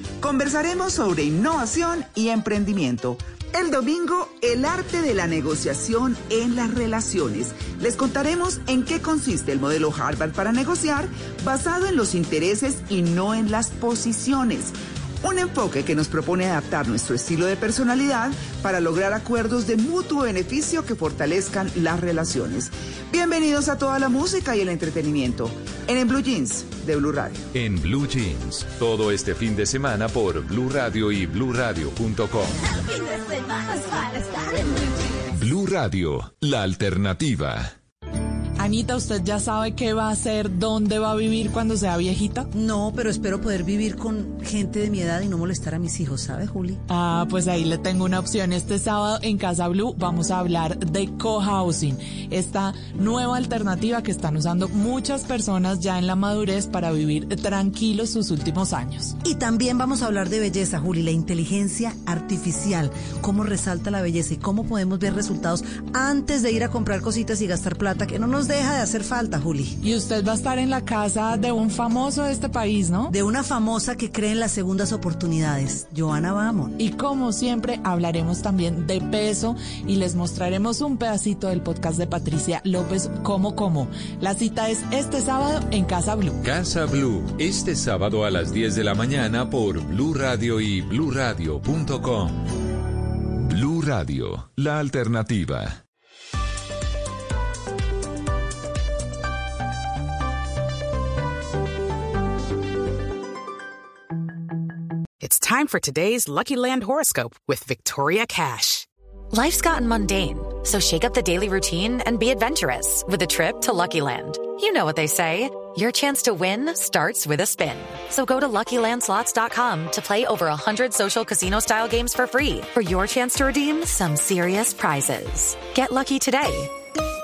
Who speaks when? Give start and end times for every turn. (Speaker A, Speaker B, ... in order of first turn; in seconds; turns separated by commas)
Speaker A: 0.2-27.4, Speaker B: 27.5-32.7, Speaker B: 35.3-37.7, Speaker C: 38.6-42.5, Speaker D: 42.5-46.8, Speaker C: 46.9-59.2, Speaker D: 59.2-69.8, Speaker C: 69.8-73.1, Speaker D: 73.1-76.7, Speaker C: 76.8-86.4, Speaker B: 86.4-92.4, Speaker B: 93.3-95.8, Speaker E: 105.2-108.9, Speaker F: 109.3-126.7